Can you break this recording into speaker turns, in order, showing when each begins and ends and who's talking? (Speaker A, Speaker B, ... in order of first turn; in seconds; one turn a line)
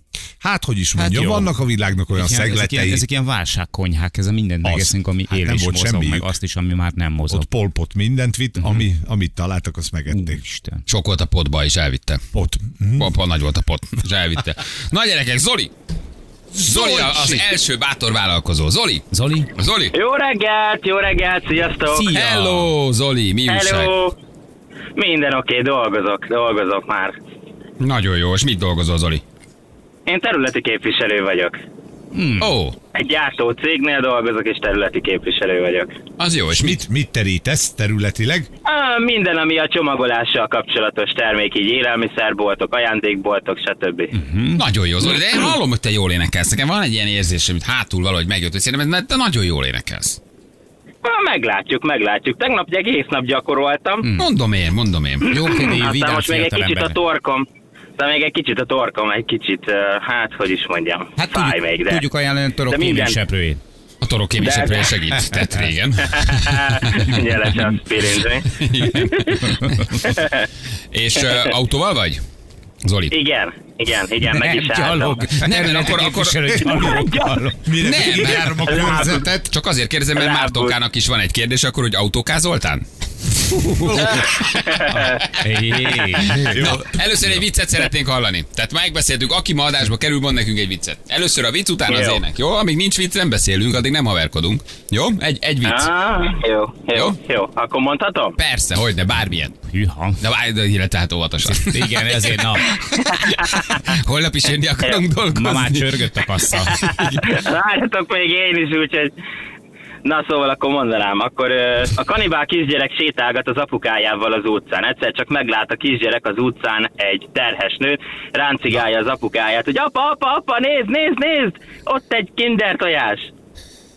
Speaker A: 0.4-3.0
Speaker B: 0.9-1.6
Speaker B: 2.1-7.5
Speaker A: 4.6-6.3
Speaker A: 7.3-10.4
Speaker B: 8.6-8.8
Speaker B: 10.1-10.8
Speaker C: 10.9-12.2
Speaker A: 12.3-13.1
Speaker C: 13.0-15.7
Speaker A: 16.5-17.4
Speaker C: 16.6-19.9
Speaker B: 19.1-19.5
Speaker D: 19.9-22.1
Speaker B: 21.9-22.7
Speaker C: 22.1-23.9
Speaker D: 23.5-24.1
Speaker D: 24.9-27.2
Speaker C: 27.8-29.2
Speaker D: 30.1-31.6
Speaker B: 32.1-32.5
Speaker C: 32.4-32.8
Speaker D: 32.9-35.9
Speaker C: 36.2-36.8
Speaker A: 36.5-38.5
Speaker D: 38.6-44.1
Speaker B: 44.1-44.6
Speaker C: 44.5-50.2
Speaker D: 51.0-54.0
Speaker B: 54.0-54.3
Speaker C: 54.2-55.3
Speaker D: 55.2-57.5
Speaker B: 55.3-57.0
Speaker D: 58.0-62.0
Speaker B: 61.1-63.6
Speaker D: 62.7-63.2
Speaker C: 64.0-67.6
Speaker D: 64.4-65.0
Speaker D: 66.2-68.5
Speaker C: 68.2-70.1
Speaker B: 69.5-69.8
Speaker D: 70.0-70.5
Speaker C: 70.9-72.2
Speaker C: 72.8-73.1
Speaker D: 73.1-75.3
Speaker B: 74.2-77.7
Speaker C: 75.4-76.8
Speaker A: 76.5-79.5
Speaker C: 77.8-82.8
Speaker D: 78.6-79.2
Speaker D: 80.1-80.8
Speaker C: 83.8-85.2
Speaker A: 83.9-84.2
Speaker D: 84.8-85.2
Speaker B: 85.1-86.4
Speaker A: 86.2-87.4
Speaker C: 86.4-95.9
Speaker D: 91.9-92.2
Speaker D: 95.6-98.3
Speaker C: 98.3-99.5
Speaker B: 99.7-100.2
Speaker C: 100.2-105.9
Speaker B: 101.4-102.7
Speaker B: 105.3-106.8
Speaker C: 106.8-107.2
Speaker D: 106.8-109.1
Speaker D: 110.0-123.3